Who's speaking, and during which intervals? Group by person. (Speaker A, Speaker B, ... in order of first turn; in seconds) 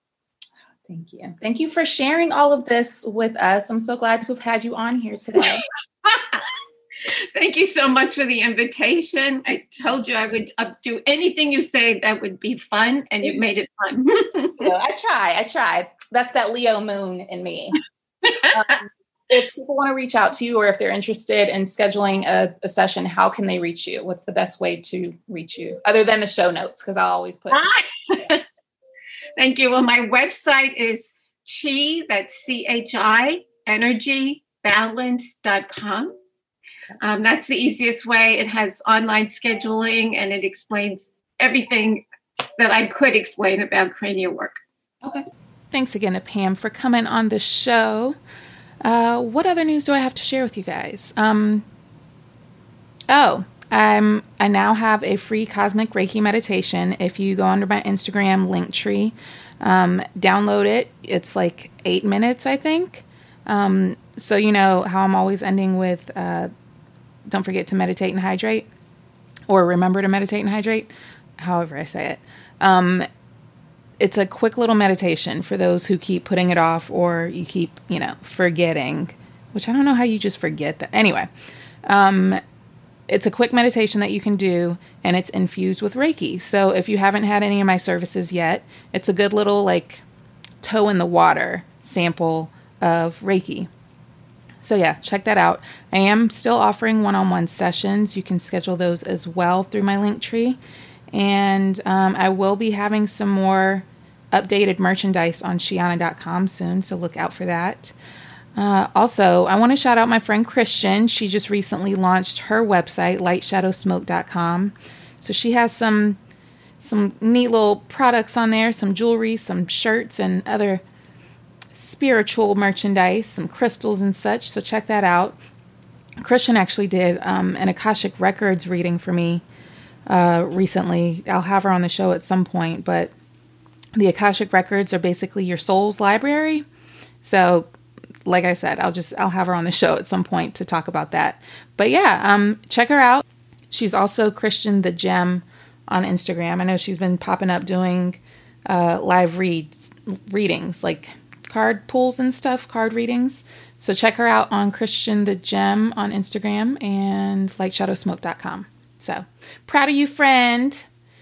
Speaker A: 0.8-5.6, 14.6-17.8, 18.5-27.7
Speaker B: 6.0-6.5, 7.1-14.7, 18.2-18.5, 27.5-28.4, 29.4-36.1, 37.0-42.0, 42.6-44.6
Speaker C: 45.7-48.1, 48.8-51.6, 53.1-66.5, 67.3-68.7, 69.5-73.0, 74.0-81.3, 81.8-82.4, 83.1-90.0, 90.6-93.7, 94.6-100.6, 101.1-107.9, 108.5-116.2, 116.8-120.8, 121.7-125.3, 126.2-129.4, 130.1-133.1, 133.9-136.6, 137.2-137.7, 138.2-160.8